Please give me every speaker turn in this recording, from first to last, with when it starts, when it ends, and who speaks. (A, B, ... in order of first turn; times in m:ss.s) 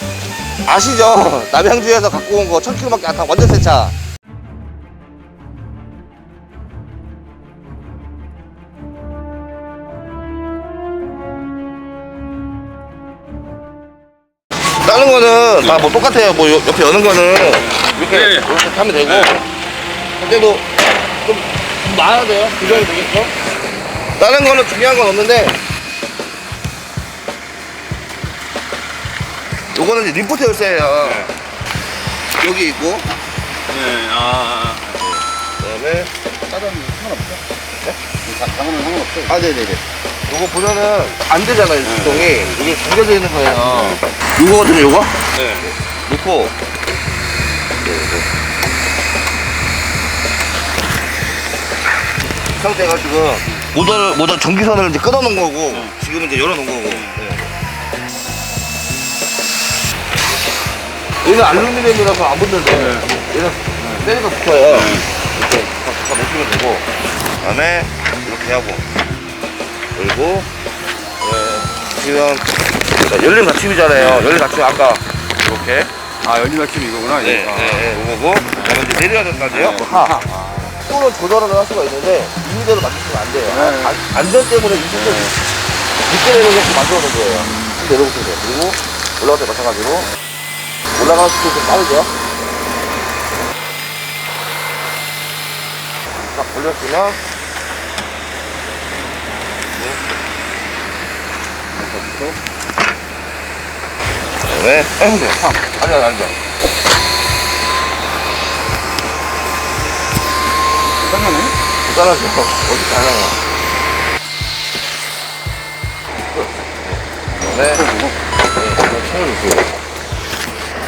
0:00.6-0:03.9 A
0:14.8-0:19.4 A
0:17.8-0:18.5 B
0:19.0-0:19.3 B
0:20.2-0:20.7 A
0:21.2-0:23.3 A
0:22.6-0:23.0 B
0:24.2-0:25.6 A
0:29.7-0:31.3 A
0:31.0-0:31.3 B
0:32.4-0:33.1 A
0:33.7-0:35.0 B
0:35.0-0:36.1 A
0:36.5-0:37.4 B
0:38.2-0:39.4 B
0:39.3-0:46.5 A
0:41.8-0:42.5 B
0:43.7-0:44.0 B
0:45.4-0:45.7 B
0:47.8-0:48.3 A
0:52.6-0:57.5 A
0:56.9-0:57.2 B
1:01.2-1:06.9 A
1:02.8-1:03.1 B
1:03.8-1:04.1 B
1:04.7-1:05.1 B
1:07.4-1:08.8 A
1:10.0-1:10.5 A
1:11.2-1:15.9 A
1:14.0-1:14.3 B
1:16.2-1:17.9 B
1:17.2-1:20.1 A
1:18.5-1:18.9 B
1:19.5-1:20.8 B
1:20.7-1:25.3 A
1:23.5-1:24.0 B
1:24.9-1:25.3 B
1:26.1-1:30.1 A
1:31.0-1:32.1 A
1:36.2-1:37.2 A
1:41.7-1:42.4 B
1:44.4-1:46.3 A
1:50.9-1:51.6 B
1:51.8-1:53.4 A
1:56.3-1:57.8 A
1:57.6-1:58.2 B
1:58.5-1:59.7 A